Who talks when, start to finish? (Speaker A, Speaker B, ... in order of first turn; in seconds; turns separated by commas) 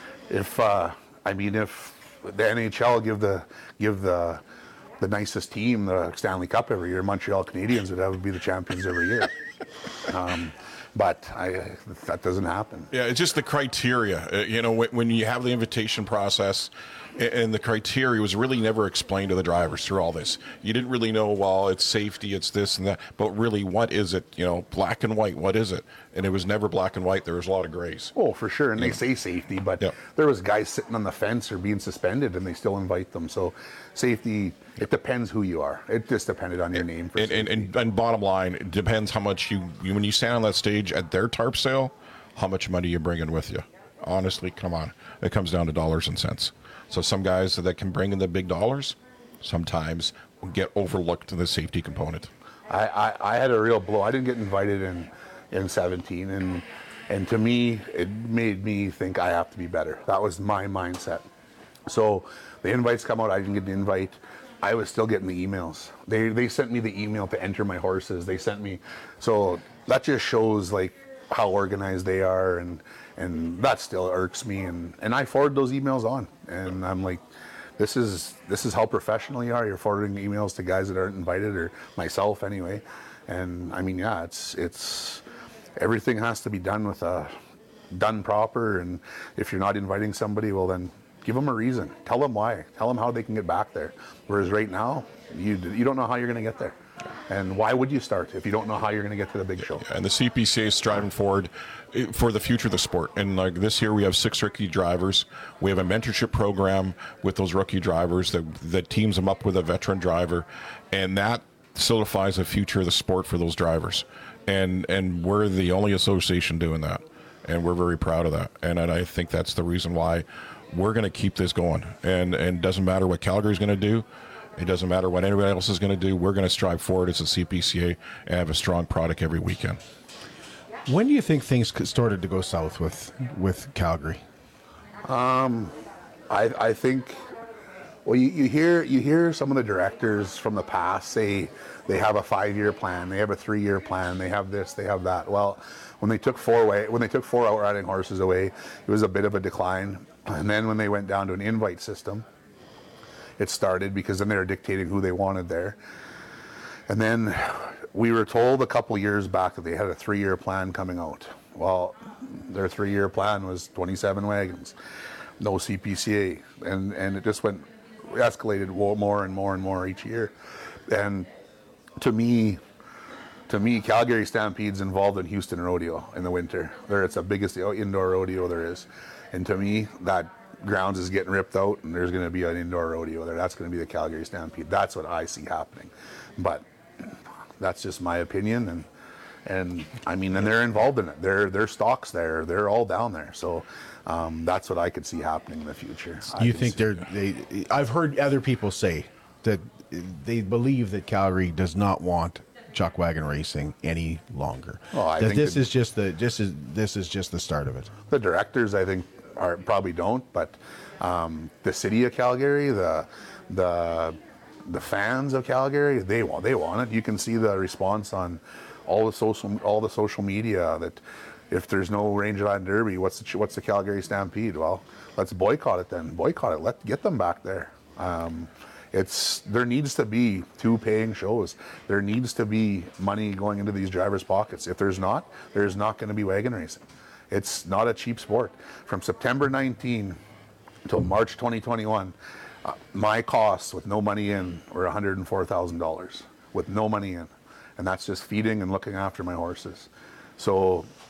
Speaker A: 0.3-4.4, Speaker A: 5.0-9.3, Speaker A: 10.1-12.9, Speaker B: 12.9-28.1, Speaker A: 28.2-37.7, Speaker B: 36.8-52.3, Speaker A: 52.7-61.3, Speaker A: 61.9-77.2, Speaker A: 77.8-85.2, Speaker A: 85.8-87.3, Speaker A: 87.9-96.8, Speaker A: 97.3-99.8, Speaker B: 99.8-124.0, Speaker B: 124.6-129.8, Speaker C: 130.9-134.2, Speaker A: 135.1-135.7, Speaker A: 136.3-137.2, Speaker A: 138.1-152.2, Speaker A: 153.4-155.8, Speaker A: 156.9-164.7, Speaker A: 165.4-170.3, Speaker A: 170.9-171.3, Speaker A: 172.0-172.6, Speaker A: 173.5-186.6, Speaker A: 187.6-188.9, Speaker A: 189.5-196.8, Speaker C: 196.4-207.9, Speaker A: 204.9-205.7, Speaker A: 208.1-221.0, Speaker A: 221.5-240.2, Speaker A: 240.9-242.1, Speaker A: 242.7-250.9